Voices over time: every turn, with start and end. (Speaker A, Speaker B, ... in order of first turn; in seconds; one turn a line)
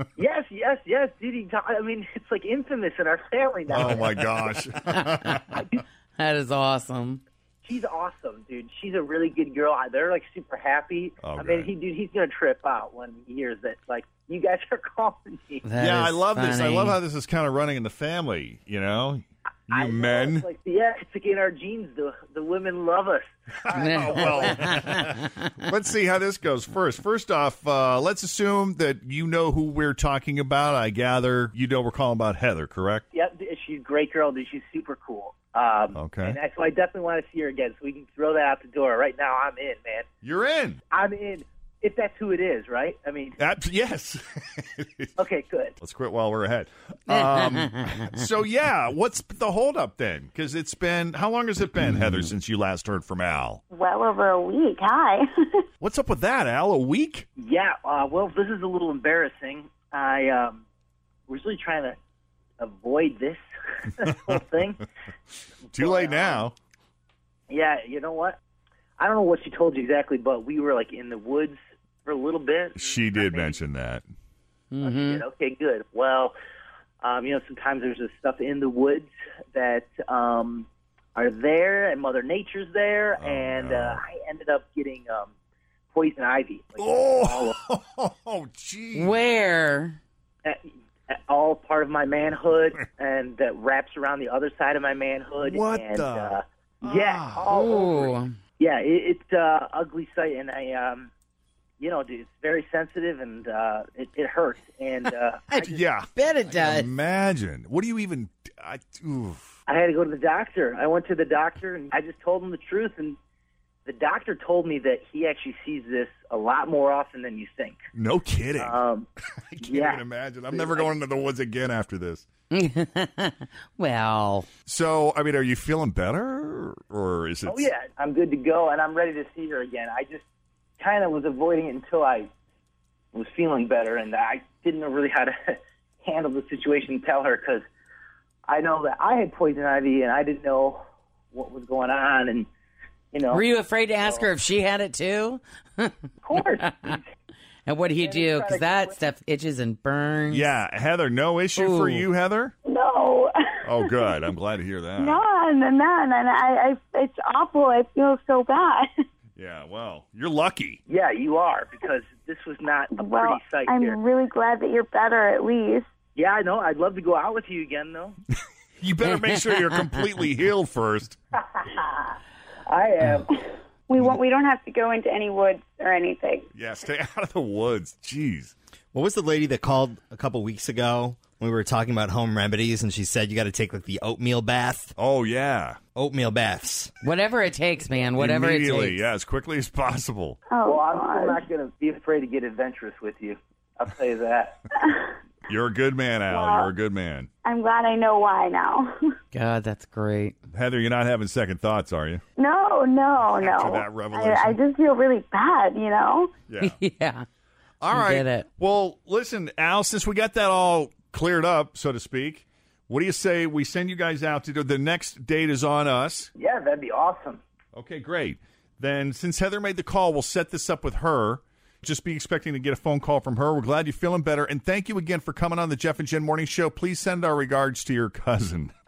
Speaker A: 0.2-4.6
Speaker B: 3.7-5.6
Speaker C: 4.9-5.2
Speaker A: 5.5-5.8
Speaker C: 6.2-7.2
Speaker A: 7.7-15.7
Speaker B: 11.2-11.7
Speaker C: 15.7-17.0
Speaker B: 15.8-20.5
Speaker A: 19.7-24.6
Speaker B: 23.6-33.0
Speaker A: 33.1-40.0
Speaker B: 35.9-36.4
Speaker B: 40.2-40.8
Speaker A: 40.9-43.4
Speaker B: 43.4-45.1
Speaker A: 45.2-45.7
Speaker B: 45.8-53.6
Speaker D: 53.7-55.2
Speaker B: 55.8-57.3
Speaker A: 57.4-60.6
Speaker A: 61.3-62.0
Speaker A: 62.6-64.8
Speaker A: 65.7-66.4
Speaker B: 65.7-66.5
Speaker A: 67.5-68.4
Speaker A: 69.0-73.6
Speaker B: 72.8-74.0
Speaker C: 74.7-75.2
Speaker A: 74.8-76.3
Speaker A: 77.0-85.3
Speaker B: 83.2-84.0
Speaker A: 85.9-87.5
Speaker B: 86.8-89.2
Speaker C: 89.0-90.0
Speaker A: 90.5-101.1
Speaker B: 95.4-97.5
Speaker C: 97.5-98.3
Speaker A: 101.8-105.8
Speaker B: 105.6-109.4
Speaker A: 109.7-113.2
Speaker A: 113.9-117.8
Speaker B: 117.9-118.8
Speaker A: 118.6-119.1
Speaker B: 119.4-122.3
Speaker A: 119.6-120.9
Speaker C: 122.5-124.5
Speaker B: 124.7-127.7
Speaker A: 127.5-130.2
Speaker A: 130.8-132.3
Speaker A: 133.1-137.6
Speaker A: 138.5-140.8
Speaker A: 141.3-142.5
Speaker A: 143.1-144.3
Speaker C: 143.3-146.0
Speaker A: 146.2-147.0
Speaker C: 147.7-150.5
Speaker A: 147.9-149.0
Speaker B: 150.3-152.6
Speaker C: 151.6-152.1
Speaker D: 152.7-153.3
Speaker B: 153.6-155.2
Speaker D: 155.0-158.9
Speaker B: 159.4-160.8
Speaker A: 160.9-164.0
Speaker D: 163.0-165.9
Speaker A: 166.2-168.2
Speaker B: 168.8-171.2
Speaker A: 171.6-172.2
Speaker A: 172.7-173.4
Speaker D: 173.9-176.5
Speaker B: 176.5-178.5
Speaker E: 178.9-184.9
Speaker B: 185.0-185.8
Speaker E: 186.0-186.9
Speaker C: 187.0-189.0
Speaker B: 188.2-190.4
Speaker D: 190.5-191.4
Speaker A: 190.7-194.6
Speaker D: 194.8-195.1
Speaker B: 195.5-197.3
Speaker D: 196.3-196.7
Speaker D: 197.4-198.9
Speaker C: 199.3-200.4
Speaker B: 200.5-202.2
Speaker D: 202.4-206.3
Speaker B: 203.4-204.6
Speaker B: 206.5-206.8
Speaker C: 206.6-207.3
Speaker B: 207.8-216.3
Speaker C: 207.9-208.5
Speaker A: 216.4-217.4
Speaker B: 217.7-228.7